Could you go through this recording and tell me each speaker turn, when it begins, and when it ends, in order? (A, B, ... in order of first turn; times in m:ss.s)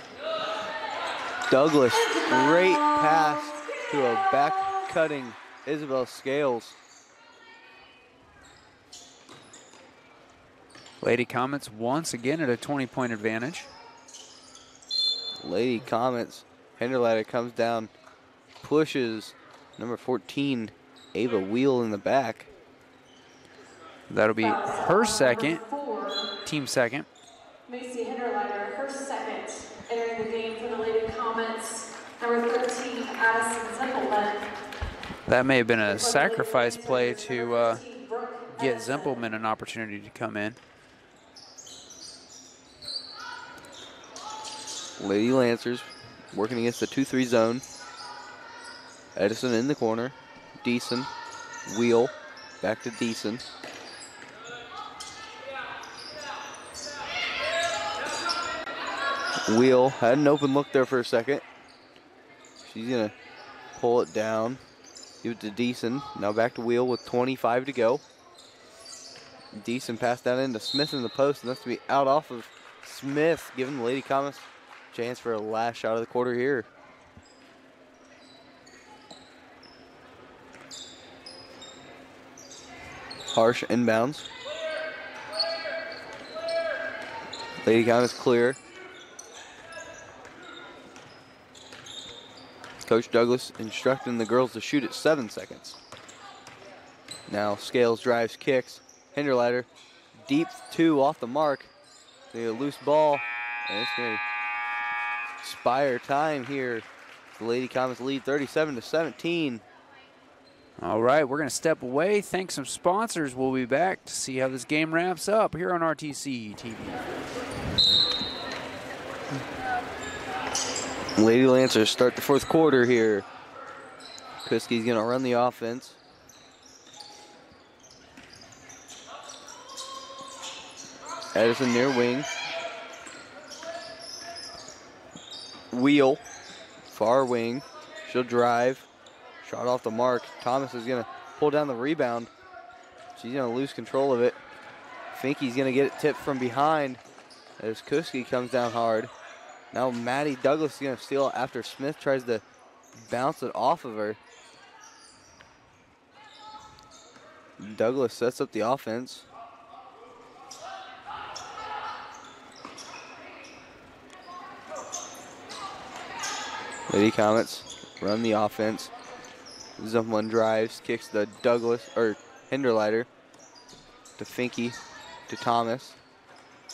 0:01.5-0:06.8 A
0:01.9-0:04.8 B
0:11.0-0:13.7 C
0:15.4-0:17.9 A
0:18.6-0:22.5 A
0:24.1-0:25.6 C
0:24.4-0:26.3 B
0:26.4-0:27.1 C
0:27.7-0:34.4 B
0:35.3-0:37.8 C
0:35.9-0:39.3 B
0:38.5-0:40.6 C
0:45.0-0:47.6 A
0:49.2-0:51.1 A
0:51.6-0:53.4 A
0:59.5-1:01.4 A
1:02.6-1:03.1 A
1:03.7-1:04.6 A
1:05.2-1:08.0 A
1:09.5-1:16.7 A
1:23.3-1:24.2 A
1:27.6-1:28.6 A
1:32.8-1:35.8 A
1:37.3-1:41.7 A
1:42.3-1:44.2 A
1:45.4-1:46.8 A
1:47.4-1:49.6 A
1:50.8-1:57.0 C
2:01.2-2:03.3 A
2:04.4-2:06.0 A
2:11.3-2:12.3 A
2:15.7-2:16.2 A
2:16.8-2:18.9 A
2:19.4-2:22.3 A
2:23.2-2:24.4 A
2:25.1-2:27.0 A
2:27.6-2:29.1 A
2:29.7-2:32.4 A
2:32.9-2:34.2 A
2:37.6-2:39.3 A
2:46.9-2:48.9 A
2:49.8-2:53.1 A
2:54.2-2:54.8 A
2:55.3-2:56.0 A